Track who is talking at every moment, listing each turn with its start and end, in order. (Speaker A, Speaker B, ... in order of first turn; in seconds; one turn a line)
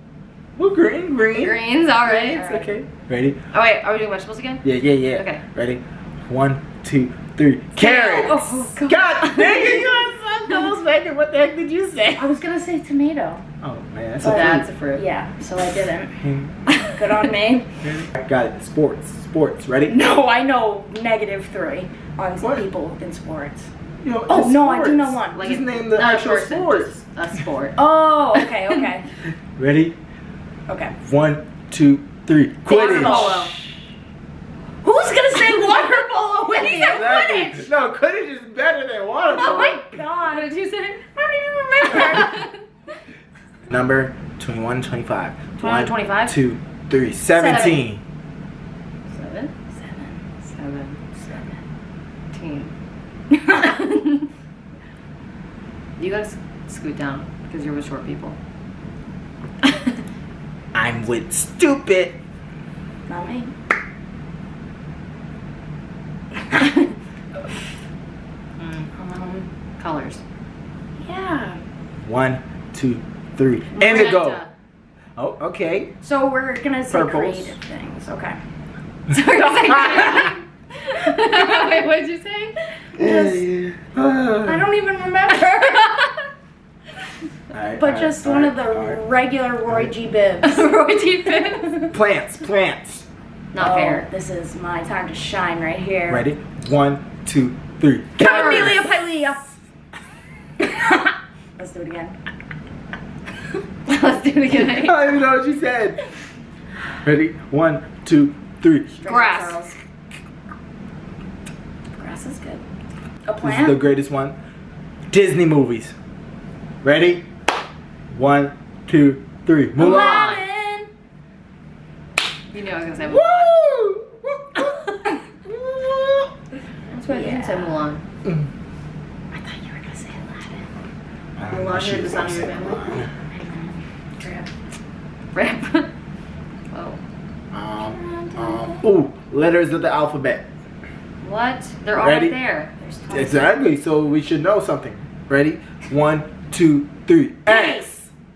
Speaker A: 0.6-1.6
Speaker B: 1.3-2.6
Speaker C: 2.0-2.7
Speaker A: 2.4-3.4
Speaker B: 3.5-5.4
Speaker A: 4.6-12.4
Speaker B: 7.8-8.8
Speaker C: 8.1-9.8
Speaker C: 12.2-13.4
Speaker A: 13.6-14.7
Speaker B: 14.2-15.1
Speaker C: 14.2-16.2
Speaker A: 16.2-16.5
Speaker C: 16.8-17.7
Speaker A: 17.8-20.0
Speaker C: 19.9-23.7
Speaker A: 22.4-22.7
Speaker A: 24.0-26.9
Speaker C: 24.3-25.4
Speaker B: 25.3-27.8
Speaker C: 27.8-29.0
Speaker B: 28.4-28.9
Speaker A: 29.6-30.0
Speaker C: 30.7-30.9
Speaker A: 31.0-33.5
Speaker C: 32.6-33.5
Speaker B: 32.7-33.5
Speaker C: 34.8-37.6
Speaker A: 36.6-39.8
Speaker C: 39.3-40.5
Speaker B: 39.4-41.0
Speaker C: 41.1-42.4
Speaker B: 41.8-42.5
Speaker A: 43.7-48.0
Speaker B: 45.6-46.4
Speaker B: 47.3-47.9
Speaker B: 49.1-49.5
Speaker C: 49.7-50.2
Speaker B: 50.5-51.3
Speaker C: 51.2-51.5
Speaker B: 52.3-52.7
Speaker C: 53.3-53.7
Speaker B: 53.4-54.3
Speaker B: 56.0-58.4
Speaker B: 59.6-59.9
Speaker A: 60.7-62.2
Speaker C: 63.1-63.5
Speaker B: 68.6-68.9
Speaker C: 68.9-69.5
Speaker B: 69.8-70.2
Speaker C: 71.0-71.6
Speaker A: 72.0-74.4
Speaker B: 73.8-74.5
Speaker C: 73.8-74.2
Speaker A: 75.2-76.0
Speaker C: 76.0-78.4
Speaker A: 76.9-77.6
Speaker B: 79.1-82.5
Speaker C: 79.7-80.2
Speaker A: 83.0-84.7
Speaker C: 83.0-83.5
Speaker C: 84.4-86.0
Speaker B: 85.7-86.1
Speaker A: 87.5-89.0
Speaker C: 87.8-91.9
Speaker A: 89.6-90.0
Speaker B: 90.4-91.9
Speaker A: 91.9-93.0
Speaker B: 93.5-94.1
Speaker C: 93.5-96.2
Speaker A: 96.1-98.9
Speaker C: 98.2-99.5
Speaker B: 98.2-98.8
Speaker C: 100.6-102.2
Speaker B: 103.8-105.1
Speaker A: 104.6-106.0
Speaker A: 107.0-108.9
Speaker C: 108.9-109.8
Speaker B: 109.0-109.6
Speaker C: 112.0-112.6
Speaker C: 113.2-113.8
Speaker A: 113.4-114.4
Speaker A: 115.1-115.9
Speaker A: 116.8-117.3
Speaker A: 118.1-120.4
Speaker C: 119.8-120.9
Speaker B: 122.5-123.5
Speaker A: 123.0-126.3
Speaker B: 126.9-128.0
Speaker C: 127.1-127.8
Speaker C: 129.3-130.7
Speaker A: 131.3-133.1
Speaker B: 131.4-132.9
Speaker C: 133.3-134.5
Speaker B: 135.3-135.9
Speaker B: 136.7-137.0
Speaker A: 137.5-140.5
Speaker C: 137.8-138.8
Speaker B: 141.2-142.7
Speaker A: 141.9-142.3
Speaker C: 142.8-143.7
Speaker A: 143.1-148.1
Speaker C: 147.4-147.9